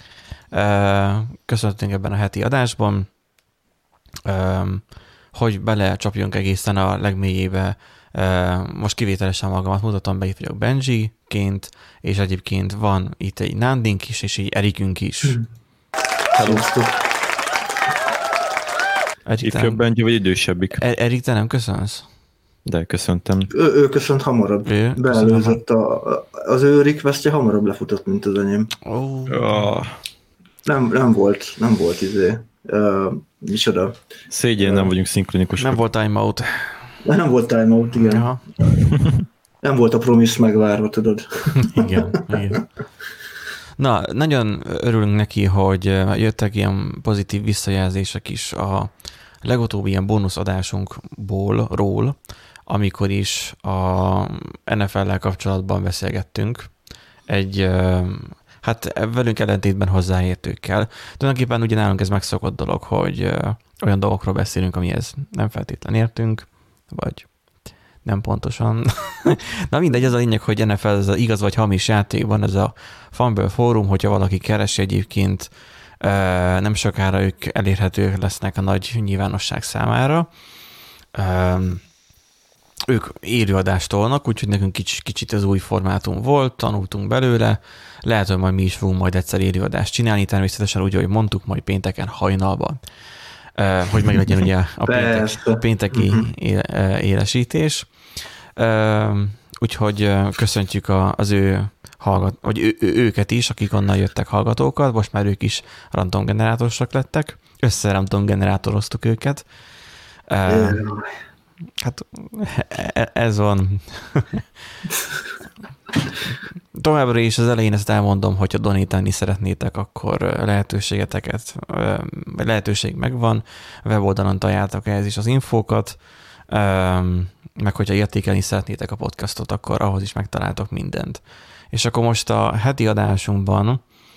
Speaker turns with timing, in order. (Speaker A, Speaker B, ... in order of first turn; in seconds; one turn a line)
Speaker A: 0.5-3.1
Speaker A: 4.3-15.4
Speaker B: 16.4-16.6
Speaker C: 16.4-17.0
Speaker A: 19.3-19.8
Speaker B: 19.4-20.8
Speaker A: 20.8-22.1
Speaker B: 22.7-23.5
Speaker C: 23.5-28.8
Speaker A: 24.7-25.6
Speaker A: 28.9-29.7
Speaker B: 29.3-30.0
Speaker C: 30.6-34.0
Speaker B: 34.3-35.8
Speaker C: 34.6-34.9
Speaker A: 35.6-36.8
Speaker C: 37.0-38.3
Speaker A: 38.0-38.4
Speaker C: 39.6-42.6
Speaker A: 41.6-42.6
Speaker A: 43.8-56.7
Speaker A: 57.3-67.3
Speaker A: 68.0-80.3
Speaker A: 81.1-81.8
Speaker A: 82.9-92.8
Speaker A: 93.6-97.9
Speaker C: 94.9-96.3
Speaker A: 98.6-109.5
Speaker A: 110.3-110.8
Speaker C: 110.5-111.1
Speaker A: 111.8-114.4
Speaker A: 116.2-133.8